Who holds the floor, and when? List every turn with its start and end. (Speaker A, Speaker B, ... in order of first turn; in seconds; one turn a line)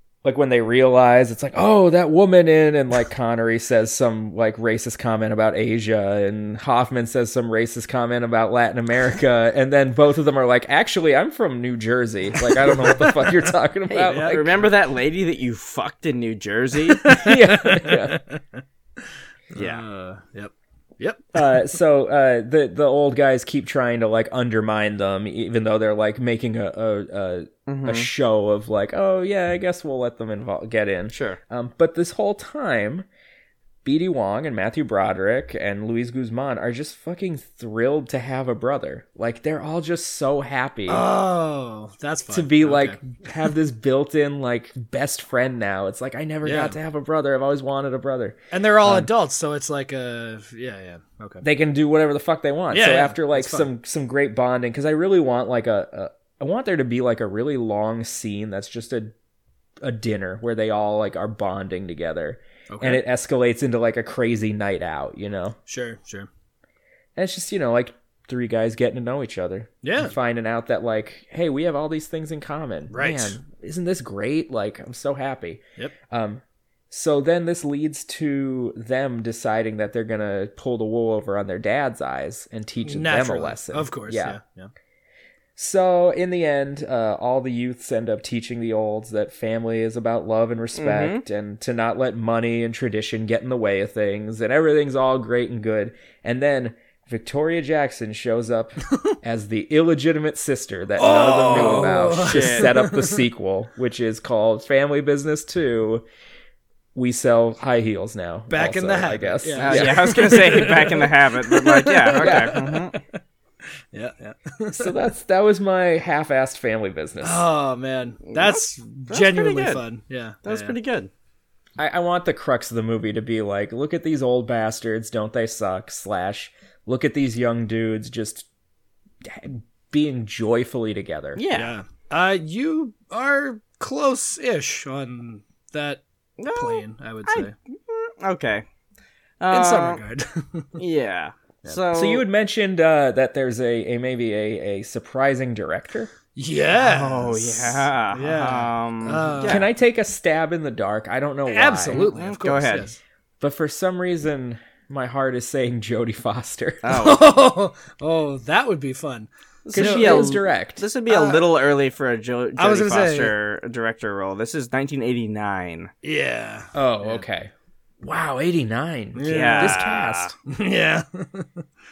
Speaker A: 0.2-14.6
Speaker B: 12.7-13.3
Speaker C: 13.9-17.1
Speaker B: 14.1-14.6
Speaker B: 17.0-18.6
Speaker A: 17.1-18.2
Speaker B: 19.5-21.3
Speaker C: 19.6-19.8
Speaker A: 21.3-33.0
Speaker C: 27.7-28.1
Speaker C: 31.1-31.4
Speaker A: 33.8-41.0
Speaker B: 40.9-43.0
Speaker A: 42.3-49.1
Speaker B: 46.4-46.8
Speaker B: 48.5-51.4
Speaker A: 51.4-59.1
Speaker B: 52.7-53.7
Speaker A: 59.8-65.6
Speaker B: 62.7-63.0
Speaker B: 65.7-66.3
Speaker A: 67.2-84.4
Speaker B: 69.8-70.1
Speaker B: 72.9-73.4
Speaker B: 82.8-84.7
Speaker A: 85.5-106.0
Speaker C: 90.8-91.2
Speaker B: 101.0-103.2
Speaker C: 101.1-102.7
Speaker A: 106.9-110.4
Speaker B: 108.5-113.2
Speaker C: 109.6-113.0
Speaker A: 112.2-112.6
Speaker B: 113.9-114.9
Speaker A: 114.7-117.4
Speaker B: 117.2-120.7
Speaker C: 118.3-119.8
Speaker C: 120.4-121.1
Speaker A: 121.8-128.4
Speaker A: 129.2-131.4
Speaker C: 131.3-131.7
Speaker B: 131.5-137.5
Speaker C: 136.4-138.6
Speaker C: 139.4-140.0
Speaker B: 139.5-140.8
Speaker C: 140.8-142.2
Speaker A: 141.9-146.1
Speaker B: 146.3-149.7
Speaker C: 146.7-149.7
Speaker A: 149.4-152.1
Speaker B: 151.5-153.0
Speaker C: 151.9-152.9
Speaker A: 153.4-156.9
Speaker C: 156.8-157.2
Speaker B: 156.9-160.3
Speaker C: 159.7-165.9
Speaker A: 159.7-160.8
Speaker B: 161.1-161.4
Speaker B: 162.6-163.3
Speaker B: 166.0-167.2
Speaker A: 166.7-167.5
Speaker A: 168.0-170.3
Speaker B: 169.1-169.9
Speaker C: 169.2-170.3
Speaker B: 170.4-171.6